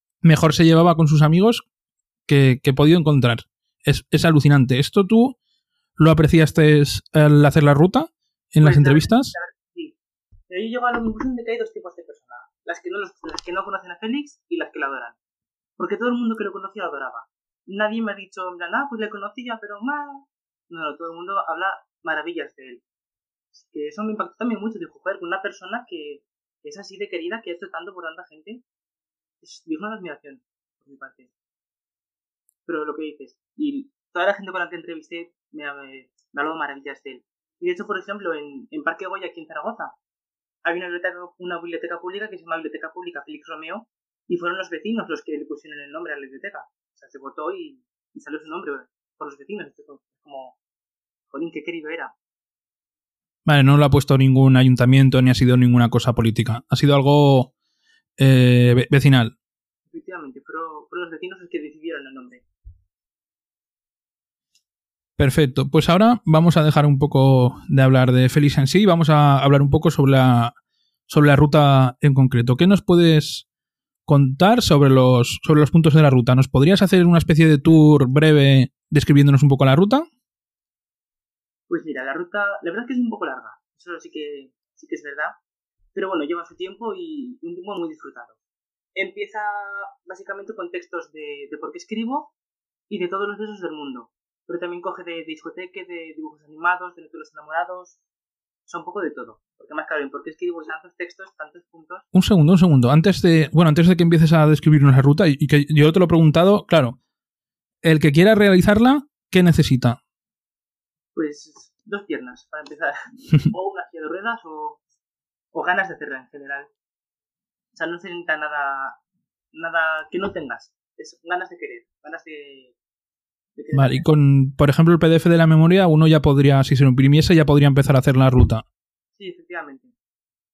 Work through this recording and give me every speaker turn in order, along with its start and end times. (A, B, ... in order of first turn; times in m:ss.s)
0:00.2-0:01.6 A
0:02.3-0:05.4 A
0:06.0-0:09.3 A
0:08.6-0:10.0 B
0:10.5-0:15.2 B
0:15.8-0:22.8 B
0:23.5-0:28.6 B
0:29.4-0:31.3 B
0:32.7-0:40.0 B
0:40.6-0:50.6 B
0:51.3-0:52.1 B
0:53.5-0:57.5 A
0:58.2-0:59.4 A
0:59.9-1:02.4 B
1:05.2-1:10.6 A
1:11.1-1:13.4 A
1:14.1-1:20.1 A
1:21.7-1:25.4 B
1:25.9-1:28.4 B
1:29.0-1:32.3 B
1:32.9-1:38.0 B
1:38.7-1:42.1 B
1:42.1-1:47.0 A
1:47.8-1:50.0 A
1:51.2-1:54.8 B
1:55.5-1:56.7 B
1:57.7-1:59.0 B
1:59.5-2:02.7 B
2:03.6-2:04.1 B
2:03.7-2:08.6 A
2:09.2-2:09.9 B